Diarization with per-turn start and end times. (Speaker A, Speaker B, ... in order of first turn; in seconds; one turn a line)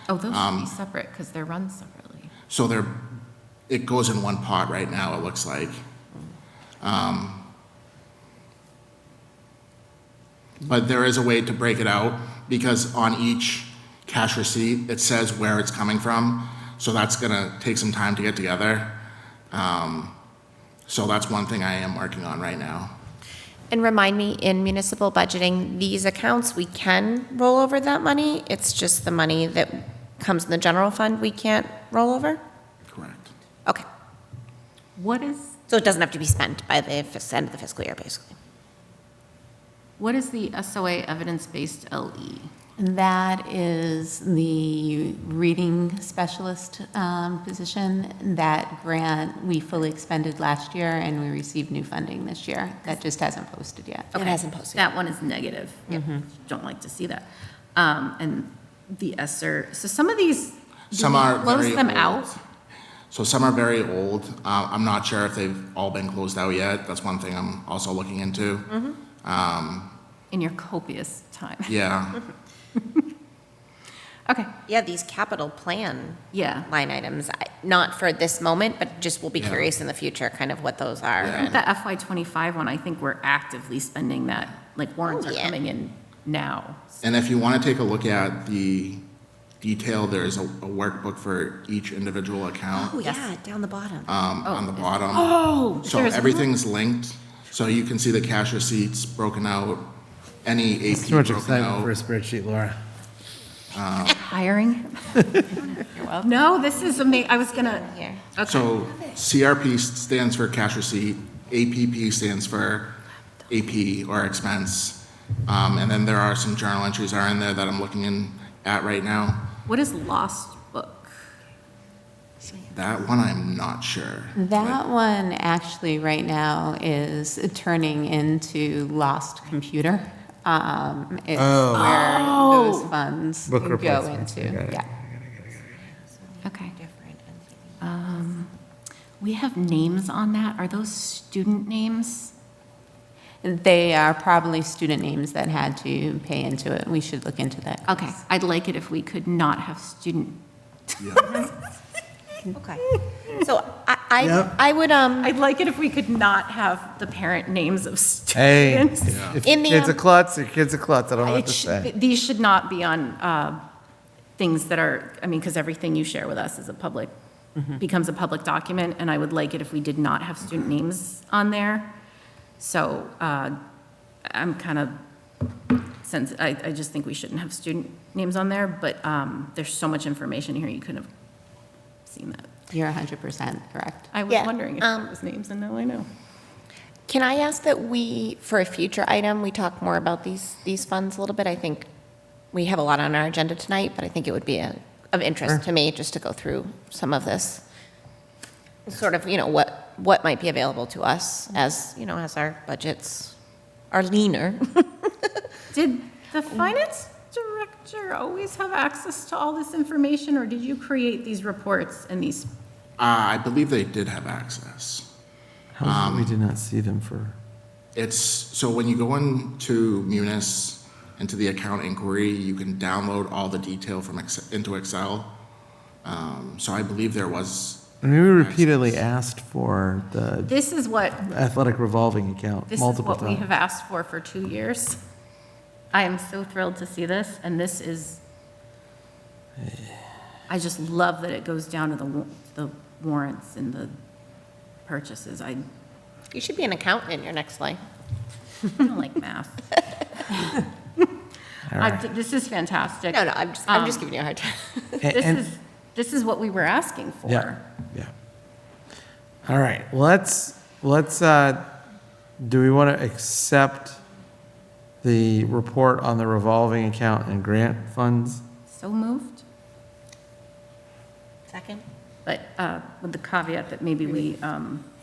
Speaker A: 0.1-2.3
Speaker B: 0.3-0.7
Speaker B: 2.5-3.1
Speaker B: 3.7-5.8
Speaker B: 6.8-7.5
Speaker B: 10.6-19.0
Speaker B: 19.5-20.2
Speaker B: 20.9-23.0
Speaker C: 23.7-32.4
Speaker B: 32.9-33.3
Speaker A: 35.0-35.6
Speaker C: 35.7-38.4
Speaker A: 40.0-42.5
Speaker D: 42.8-54.4
Speaker C: 54.1-54.8
Speaker A: 54.3-62.3
Speaker D: 55.9-56.3
Speaker B: 60.9-62.4
Speaker B: 63.1-70.0
Speaker C: 68.7-69.0
Speaker A: 70.3-71.8
Speaker B: 71.7-72.2
Speaker A: 72.8-73.0
Speaker C: 74.7-81.6
Speaker A: 76.3-76.7
Speaker B: 79.4-79.7
Speaker B: 81.2-81.5
Speaker A: 81.2-87.0
Speaker C: 85.0-85.5
Speaker B: 87.0-89.0
Speaker B: 89.6-93.0
Speaker C: 92.7-94.1
Speaker B: 94.1-99.9
Speaker A: 94.5-96.5
Speaker B: 100.4-101.9
Speaker E: 100.9-102.8
Speaker B: 103.7-104.2
Speaker A: 104.1-105.4
Speaker D: 105.6-106.3
Speaker A: 106.2-108.7
Speaker C: 106.8-108.3
Speaker B: 108.4-113.0
Speaker B: 113.5-119.5
Speaker A: 119.7-121.1
Speaker B: 122.6-124.8
Speaker D: 124.3-134.8
Speaker E: 131.4-132.0
Speaker A: 131.7-132.9
Speaker E: 133.5-135.8
Speaker C: 136.2-137.8
Speaker A: 136.4-136.8
Speaker A: 137.8-138.5
Speaker A: 139.2-142.3
Speaker D: 143.4-148.1
Speaker A: 147.9-150.4
Speaker A: 150.9-151.5
Speaker B: 151.0-151.3
Speaker C: 152.5-155.3
Speaker E: 154.2-154.5
Speaker A: 155.2-159.1
Speaker E: 158.3-161.9
Speaker B: 159.1-159.4
Speaker C: 159.4-160.0
Speaker A: 161.2-163.6
Speaker A: 164.4-167.1
Speaker A: 167.6-171.9
Speaker A: 172.6-173.6
Speaker A: 174.3-175.0
Speaker A: 176.0-181.1
Speaker A: 182.1-182.5
Speaker D: 182.7-184.1
Speaker A: 184.1-186.1
Speaker C: 184.3-185.1
Speaker C: 187.1-191.9
Speaker C: 192.5-197.6
Speaker C: 198.9-203.3
Speaker C: 203.9-205.4
Speaker A: 205.7-212.5
Speaker B: 213.0-215.1
Speaker E: 215.8-217.4
Speaker B: 215.8-216.4
Speaker B: 217.9-225.3
Speaker B: 226.0-229.1
Speaker E: 228.0-230.5
Speaker A: 230.5-231.3
Speaker E: 231.2-233.5
Speaker A: 232.7-235.0
Speaker A: 235.9-238.2
Speaker E: 239.6-240.0
Speaker A: 240.5-243.9
Speaker A: 244.9-245.6
Speaker C: 246.3-247.8
Speaker A: 248.8-249.8
Speaker E: 251.7-252.0
Speaker A: 251.8-254.1
Speaker C: 253.1-255.1
Speaker E: 255.0-255.4
Speaker A: 255.1-257.6
Speaker E: 257.3-258.1
Speaker E: 259.4-261.8
Speaker E: 262.4-264.0
Speaker E: 265.0-268.4
Speaker A: 268.7-269.4
Speaker C: 271.5-271.8
Speaker A: 272.3-274.9